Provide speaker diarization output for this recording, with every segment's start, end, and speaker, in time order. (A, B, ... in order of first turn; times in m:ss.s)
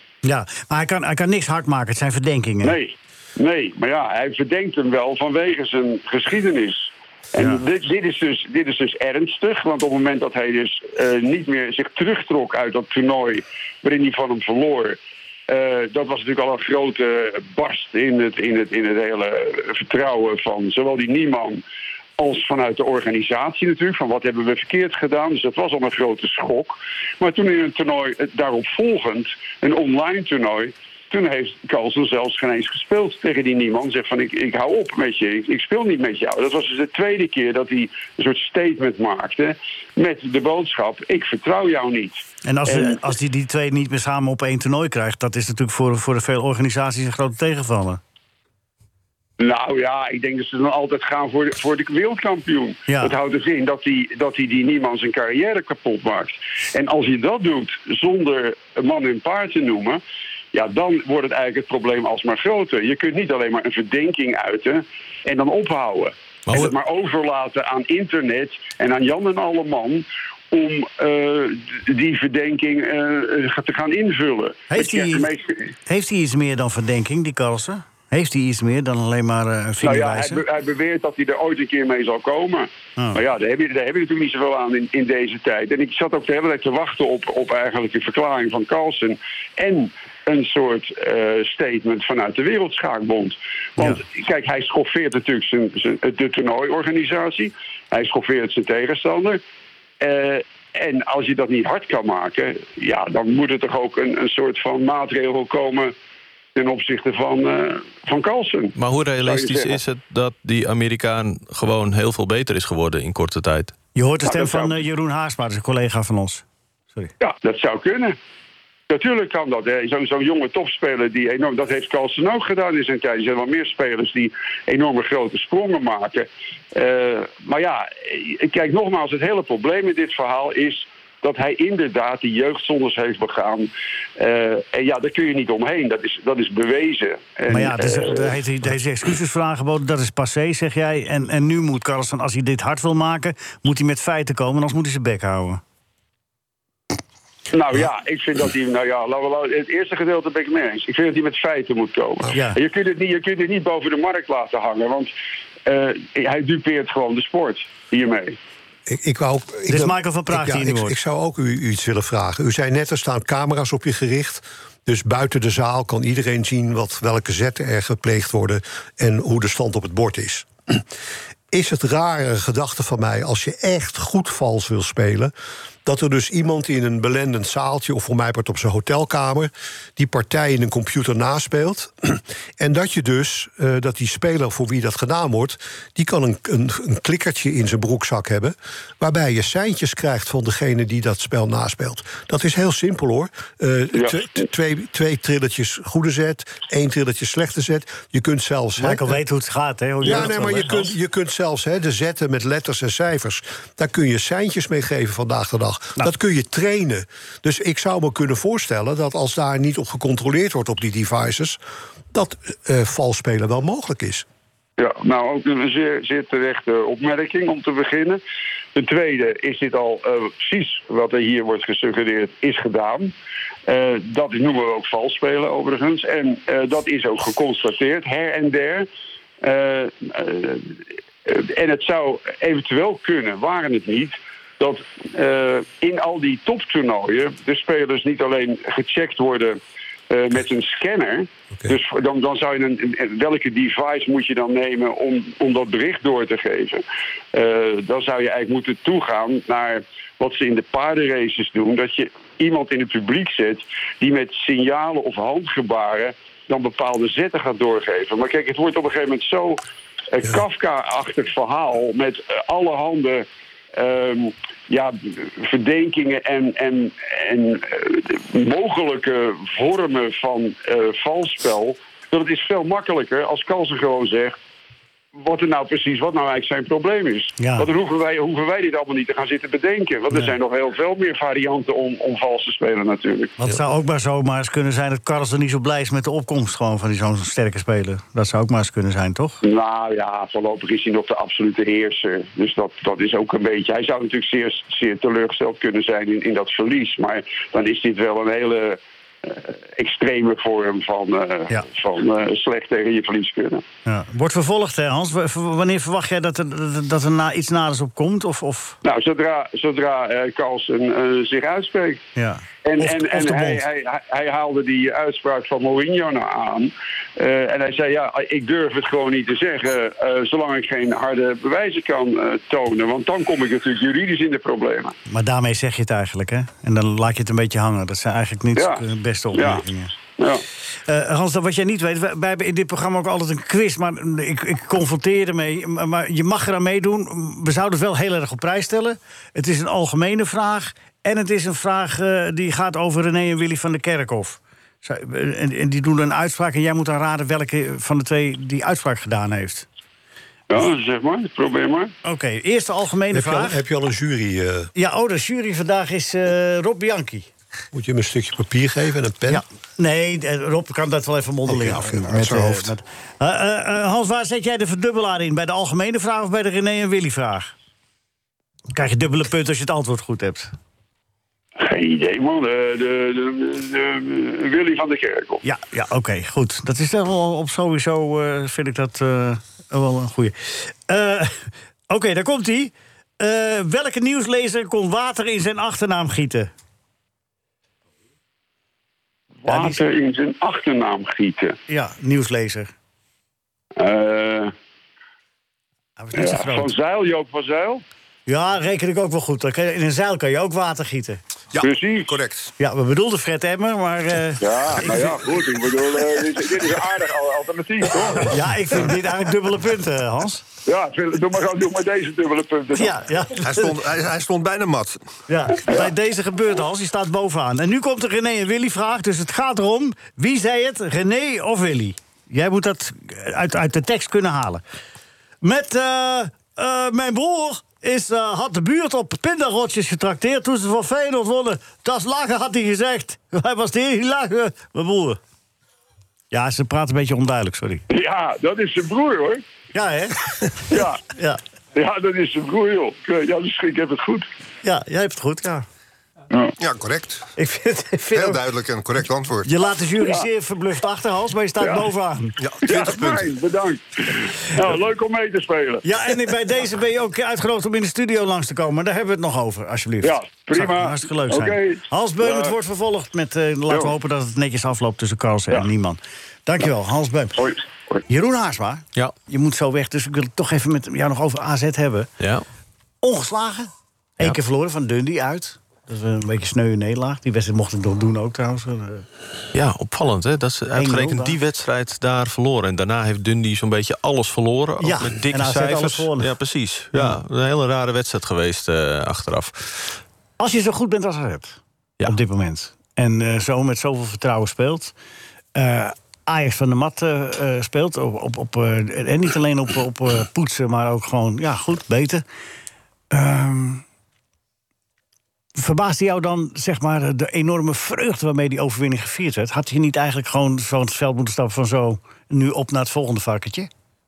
0:00.2-0:02.8 A
0:02.6-0:21.6 B
0:22.2-0:43.0 B
0:42.4-0:48.0 A
0:49.4-1:00.0 B
0:52.9-0:53.1 A
1:00.5-1:15.7 B
1:14.7-1:15.3 A
1:15.9-1:20.4 A
1:19.8-1:39.4 B
1:40.0-1:45.9 B
1:46.6-1:49.8 B
1:48.8-1:53.8 C
1:54.0-1:56.4 A
1:54.2-1:54.8 B
1:57.2-1:58.2 B
1:58.9-2:18.4 B
2:17.5-2:25.6 A
2:27.5-2:35.1 B
2:32.3-2:32.6 A
2:35.7-2:38.4 B
2:38.9-2:50.8 D
2:39.7-2:41.0 A
2:51.5-2:55.3 D
2:55.8-3:19.2 D
3:18.8-3:20.9 A
3:20.0-3:31.6 D
3:32.1-3:34.2 D
3:34.8-3:38.2 B
3:38.8-3:43.1 B
3:43.7-3:48.9 B
3:49.4-3:59.6 B
4:00.1-4:19.6 B
4:20.1-4:34.4 B
4:35.2-4:43.3 B
4:37.4-4:37.7 A
4:43.4-4:49.4 A
4:49.4-5:03.6 B
5:03.8-5:08.8 A
5:08.8-5:12.0 B
5:12.2-5:13.6 A
5:12.6-5:24.9 B
5:25.1-5:30.0 A
5:28.6-5:29.6 B
5:30.2-5:30.4 B
5:30.8-5:49.7 A
5:50.5-5:51.9 B
5:52.0-5:53.6 A
5:53.1-5:54.7 D
5:54.8-5:57.3 A
5:57.7-5:59.4 D
5:59.3-6:07.5 A
6:01.5-6:02.0 D
6:08.7-6:10.5 A
6:11.6-6:15.4 B
6:15.4-6:26.5 A
6:29.4-6:31.6 B
6:29.5-6:29.8 A
6:31.7-6:32.7 A
6:33.8-6:34.5 B
6:36.0-6:36.7 A
6:36.2-6:37.8 B
6:38.3-6:41.2 A
6:41.5-6:42.5 E
6:41.6-6:42.2 B
6:42.6-6:45.2 A
6:44.4-6:48.4 B
6:48.2-6:50.5 A
6:50.7-6:53.0 B
6:52.7-6:53.8 A
6:53.4-6:55.0 E
6:55.3-7:04.6 A
7:05.4-7:15.2 A
7:16.3-7:17.8 A
7:17.9-7:19.4 B
7:19.7-7:21.4 A
7:20.7-7:21.0 B
7:21.8-7:24.3 B
7:24.6-7:25.7 A
7:26.6-7:27.3 E
7:27.4-7:28.4 A
7:28.1-7:29.5 E
7:29.4-7:32.4 A
7:30.0-7:30.2 B
7:31.6-7:31.9 B
7:32.4-7:33.3 E
7:32.6-7:35.8 B
7:35.8-7:47.4 A
7:40.0-7:42.5 B
7:47.4-7:48.0 B
7:48.1-7:52.1 A
7:52.2-7:52.4 C
7:53.0-7:59.1 A
7:59.5-8:10.0 C
8:00.8-8:01.4 A
8:04.8-8:06.3 A
8:10.4-8:14.9 A
8:15.6-8:22.2 A
8:23.1-8:23.8 A
8:25.6-8:33.7 A